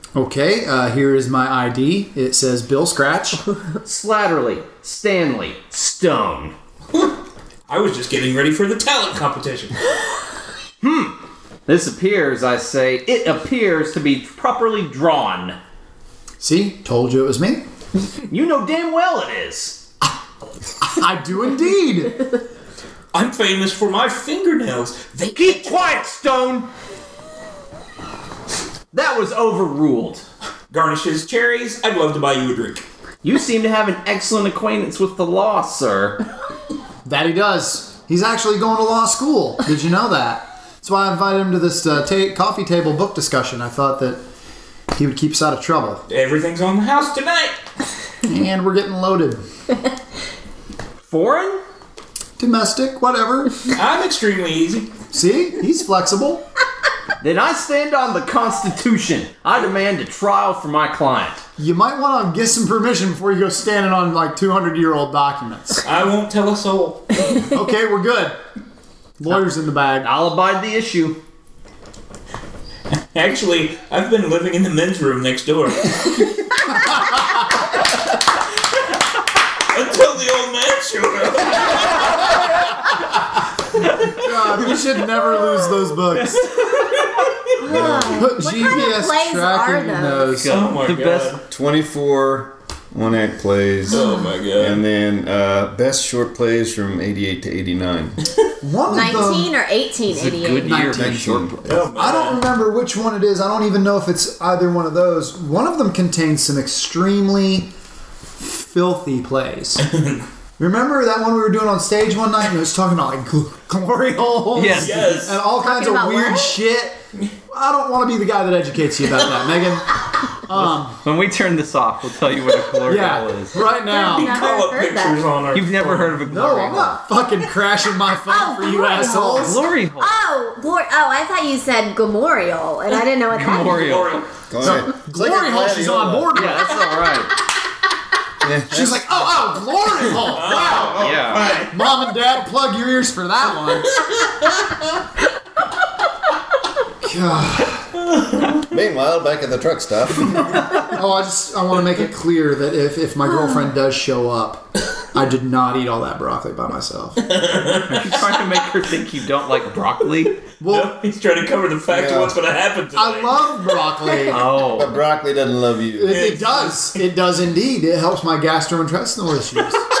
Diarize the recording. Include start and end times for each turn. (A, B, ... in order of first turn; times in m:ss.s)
0:00.2-0:03.4 A
0:03.8-0:06.5 B
0:07.7-0:09.8 C
0:10.8-0:11.1 B
0:11.7-0:15.6 B
0:16.4-0:17.6 A
0:18.3-0:19.8 B
0:20.8-0:22.2 A
0:23.1-0:25.8 C
0:25.3-0:26.7 B
0:28.9-0:30.2 B
0:30.7-0:32.8 C
0:33.2-0:36.2 B
0:37.0-0:44.2 A
0:44.9-0:46.0 A
0:46.1-0:47.6 C
0:48.2-0:49.4 A
0:51.0-0:51.6 B
0:52.4-0:53.6 A
0:53.7-0:54.9 C
0:55.1-0:56.4 A
0:57.2-1:01.4 B
1:01.6-1:05.8 A
1:05.8-1:07.3 C
1:07.4-1:08.4 A
1:09.2-1:10.1 A
1:10.0-1:11.2 B
1:13.1-1:16.3 C
1:19.7-1:22.5 C
1:24.1-1:26.5 A
1:26.3-1:27.1 B
1:27.6-1:30.4 D
1:27.7-1:28.2 E
1:27.7-1:30.5 A
1:30.4-1:31.4 B
1:30.5-1:31.4 C
1:31.5-1:34.0 E
1:33.9-1:34.8 C
1:34.6-1:38.2 E
1:38.6-1:39.5 A
1:38.9-1:40.9 D
1:40.1-1:41.6 B
1:40.6-1:47.7 A
1:40.9-1:41.6 E
1:41.6-1:42.4 C
1:48.4-1:49.8 A
1:49.8-1:50.2 C
1:50.6-1:57.0 A
1:54.5-1:55.3 B
1:54.6-1:55.4 C
1:55.4-1:56.6 D
1:57.5-2:01.0 A
2:00.5-2:03.5 B
2:02.9-2:04.4 A
2:03.9-2:05.2 D
2:03.9-2:06.2 C
2:05.5-2:07.0 B
2:06.2-2:09.6 A
2:08.3-2:14.0 D
2:09.2-2:10.1 B
2:13.3-2:14.2 B
2:13.5-2:14.3 C
2:14.5-2:16.3 E
2:14.6-2:17.1 A
2:16.3-2:17.3 B
2:18.4-2:19.4 E
2:18.7-2:21.0 A
2:20.2-2:21.7 C
2:20.9-2:21.6 B
2:21.6-2:24.0 A
2:27.0-2:27.9 A
2:28.6-2:30.8 E
2:30.8-2:37.2 A
2:37.2-2:38.6 C
2:37.8-2:40.5 B
2:40.6-2:43.4 C
2:40.6-2:41.0 A
2:41.9-2:42.4 E
2:42.9-2:44.5 A
2:44.3-2:45.0 B
2:44.6-2:46.2 E
2:45.9-2:49.8 A
2:46.1-2:46.9 C